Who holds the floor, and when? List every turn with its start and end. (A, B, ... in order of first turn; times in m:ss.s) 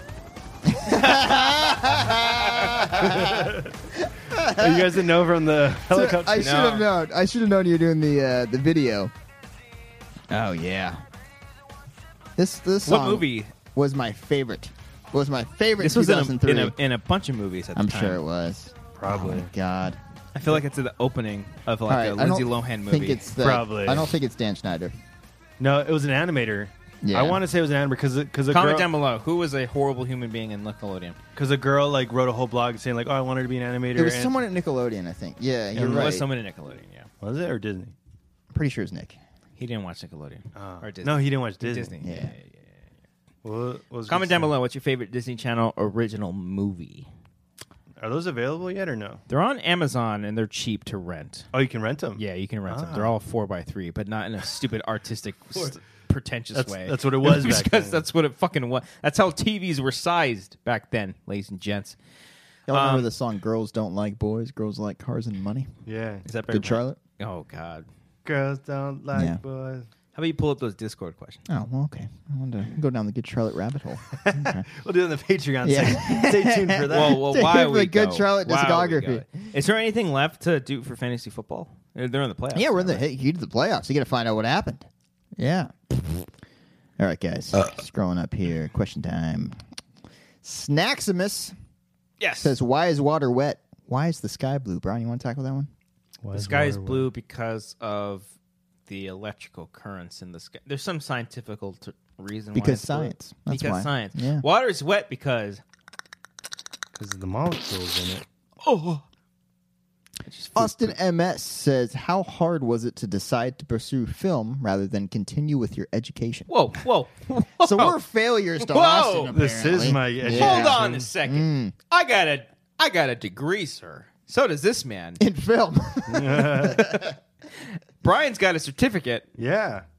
0:00.6-0:05.1 A
0:02.5-0:02.8 B
0:03.0-0:03.7 C
0:04.5-0:06.5 C
0:05.9-0:09.1 A
0:06.4-0:06.9 B
0:10.3-0:11.0 A
0:12.4-0:16.7 A
0:12.8-0:13.5 B
0:15.8-0:18.2 B
0:17.8-0:20.0 A
0:19.0-0:19.5 C
0:20.3-0:23.2 B
0:21.9-0:24.9 A
0:23.4-0:24.1 C
0:25.6-0:28.9 C
0:27.0-0:27.4 A
0:28.5-0:31.2 B
0:31.3-0:34.3 C
0:33.9-0:36.2 A
0:35.7-0:36.2 C
0:35.8-0:37.1 B
0:37.2-0:37.9 C
0:38.5-0:39.2 A
0:39.6-0:42.7 B
0:40.6-0:42.0 C
0:42.0-0:42.3 A
0:43.4-0:44.5 C
0:44.1-0:47.1 B
0:48.0-0:49.2 C
0:49.3-0:51.5 B
0:51.5-0:53.1 C
0:52.2-1:02.0 B
0:56.5-0:58.0 C
1:02.7-1:05.7 A
1:02.7-1:03.1 B
1:05.8-1:06.2 C
1:06.2-1:07.8 B
1:06.5-1:07.0 A
1:08.2-1:09.9 C
1:09.1-1:09.4 A
1:10.1-1:11.4 B
1:11.5-1:14.6 A
1:14.1-1:17.2 C
1:15.6-1:19.2 A
1:16.9-1:23.0 B
1:22.5-1:26.3 A
1:27.0-1:29.5 A
1:30.4-1:31.5 A
1:32.2-1:32.5 B
1:32.4-1:35.7 A
1:36.2-1:37.1 C
1:36.3-1:38.3 B
1:38.9-1:45.6 B
1:42.5-1:44.4 A
1:46.9-1:48.2 C
1:48.6-1:49.0 B
1:50.2-1:50.9 B
1:50.6-1:56.5 A
1:56.5-1:57.9 B
1:57.6-2:01.7 A
1:58.6-1:59.3 B
1:59.3-2:01.1 C
2:00.2-2:05.2 B
2:05.2-2:07.2 A
2:06.1-2:06.9 C
2:07.0-2:09.3 B
2:09.4-2:09.8 C